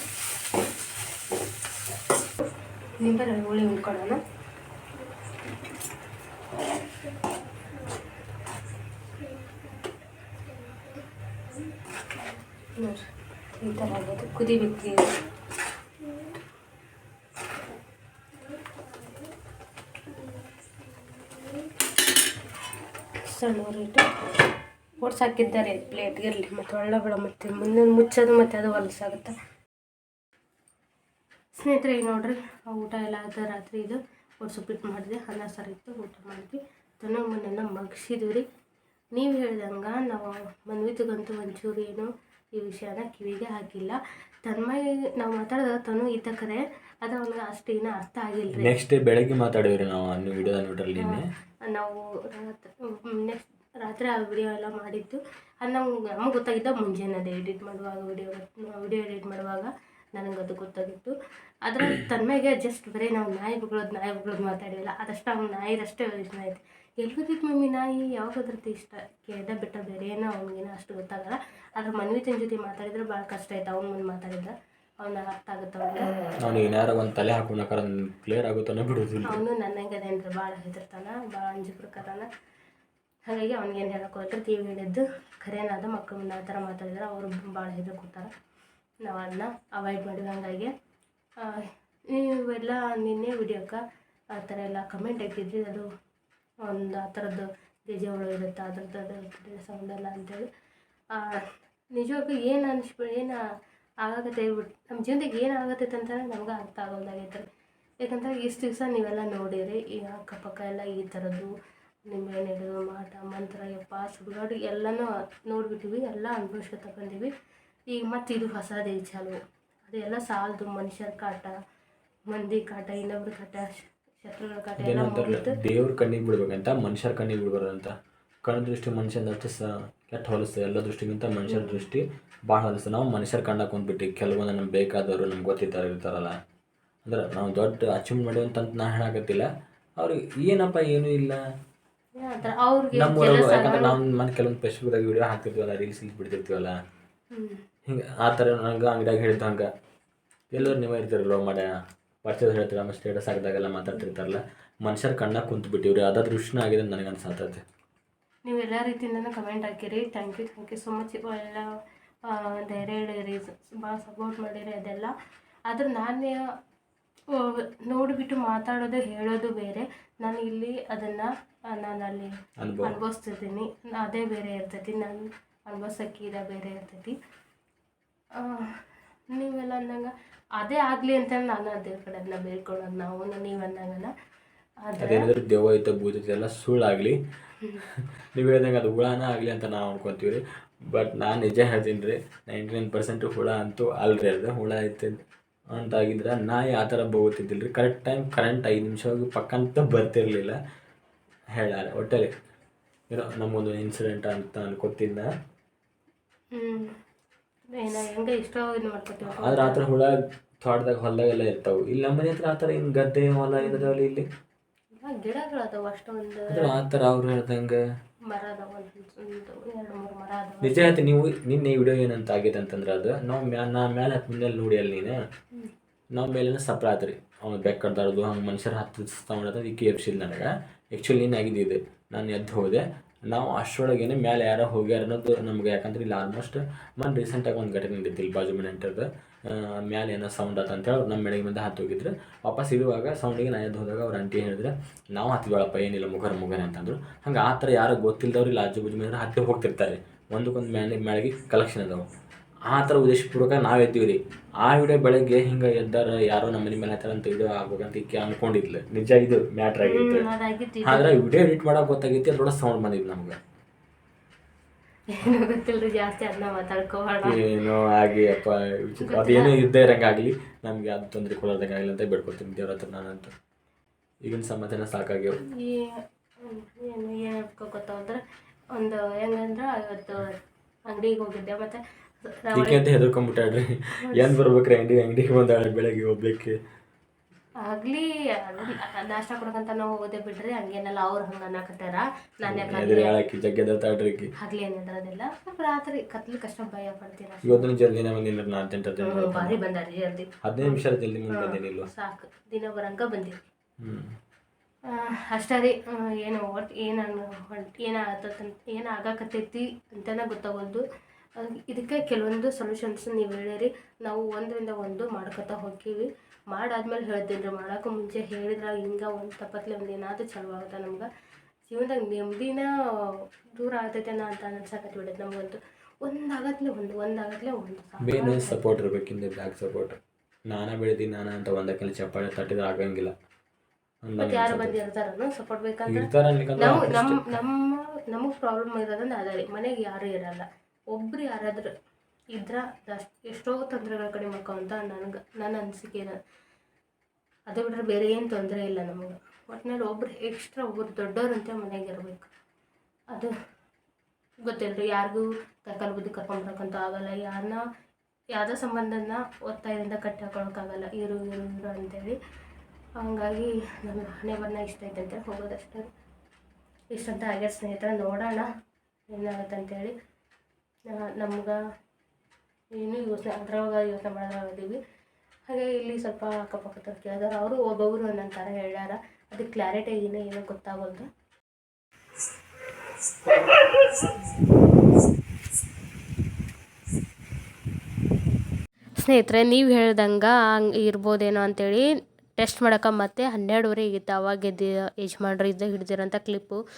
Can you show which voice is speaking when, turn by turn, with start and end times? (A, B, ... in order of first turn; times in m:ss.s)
0:03.0-0:04.2 A
0:12.8-0:13.1 A
0:13.6-0:15.1 A
0:23.3-0:24.1 A
0:25.0-0:29.3 A
0:31.5-0:38.5 A
0:39.1-0:48.8 A
0:48.6-0:51.2 B
0:51.0-1:01.1 A
1:01.6-1:16.1 A
1:16.4-1:19.4 B
1:19.3-1:22.3 A
1:23.3-1:28.3 A
1:29.0-1:30.7 A
1:31.4-1:35.9 A
1:36.6-1:40.5 A
1:41.1-1:43.4 A
1:44.0-1:47.5 A
1:48.0-1:51.5 A
1:52.1-1:57.3 A
1:57.9-2:01.6 A
2:02.3-2:05.6 A
2:04.8-2:07.9 B
2:08.4-2:16.4 B
2:11.5-2:11.8 A
2:17.0-2:21.4 B
2:22.2-2:24.0 A
2:23.0-2:26.8 B
2:27.3-2:27.6 A
2:27.9-2:29.7 B
2:30.5-2:37.6 B
2:38.4-2:41.7 A
2:42.2-2:45.1 A
2:45.7-2:46.5 A
2:47.3-2:57.2 A
2:52.6-2:53.0 B
2:58.4-3:04.1 A
3:04.8-3:05.3 A
3:05.0-3:07.2 B
3:08.4-3:15.2 B
3:15.7-3:20.6 B
3:21.6-3:22.4 B
3:23.1-3:25.3 B
3:26.5-3:27.0 A
3:27.7-3:29.8 A
3:29.4-3:34.3 B
3:33.6-3:33.9 A
3:34.9-3:36.8 A
3:36.5-3:37.8 B
3:38.3-3:41.0 A
3:40.6-3:45.2 B
3:46.1-4:12.0 B
4:12.7-4:20.3 B
4:19.8-4:21.2 A
4:20.8-4:23.4 B
4:25.1-4:27.4 A
4:27.2-4:33.3 B
4:29.0-4:29.5 A
4:34.2-4:35.4 B
4:35.4-4:38.2 A
4:38.7-4:42.8 A
4:42.5-4:46.6 B
4:44.0-4:44.3 A
4:47.6-4:53.1 A
4:52.5-4:54.3 B
4:54.4-4:57.7 A
4:57.4-4:59.6 B
4:59.0-5:03.4 A
5:00.4-5:01.9 B
5:03.8-5:04.1 B
5:04.9-5:10.8 A
5:11.4-5:21.1 A
5:21.7-5:28.7 A
5:28.0-5:30.0 B
5:30.5-5:33.1 B
5:34.0-5:34.8 B
5:34.2-5:41.7 A
5:35.9-5:37.4 B
5:42.3-5:46.2 A
5:47.5-5:52.3 A
5:54.4-5:57.6 A
5:58.3-6:02.2 A
6:03.0-6:05.9 A
6:06.9-6:08.5 A
6:09.1-6:09.9 A
6:10.9-6:11.6 A
6:12.8-6:14.8 A
6:15.5-6:21.1 A
6:29.0-6:36.6 A